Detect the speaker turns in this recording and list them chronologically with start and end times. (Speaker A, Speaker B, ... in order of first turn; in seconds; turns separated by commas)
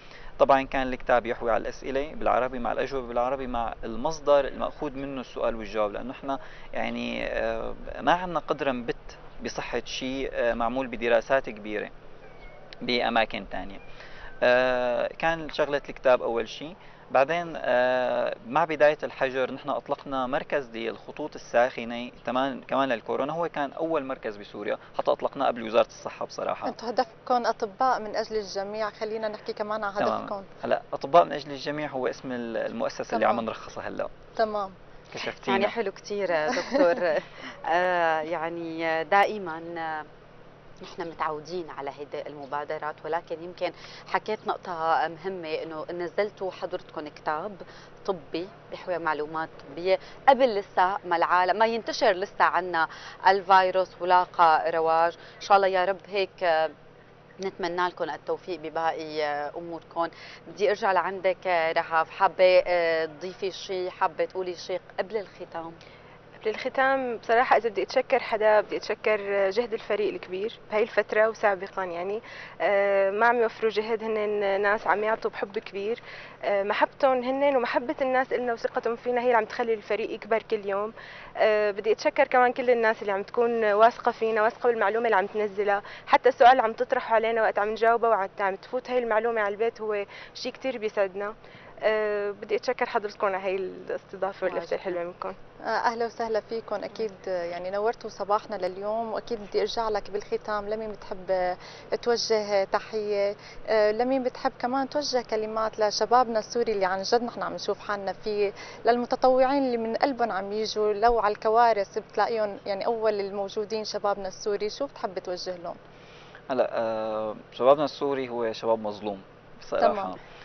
Speaker A: 0.4-11.9, Speaker A: 12.8-13.8, Speaker A: 14.4-26.7, Speaker B: 26.6-30.5, Speaker A: 30.0-34.1, Speaker B: 33.1-33.4, Speaker B: 34.4-34.7, Speaker A: 35.1-35.7, Speaker C: 35.4-40.1, Speaker C: 40.8-56.7, Speaker C: 57.4-65.8, Speaker D: 66.4-95.4, Speaker C: 94.4-95.0, Speaker B: 95.7-115.8, Speaker A: 116.5-120.2, Speaker B: 119.8-120.2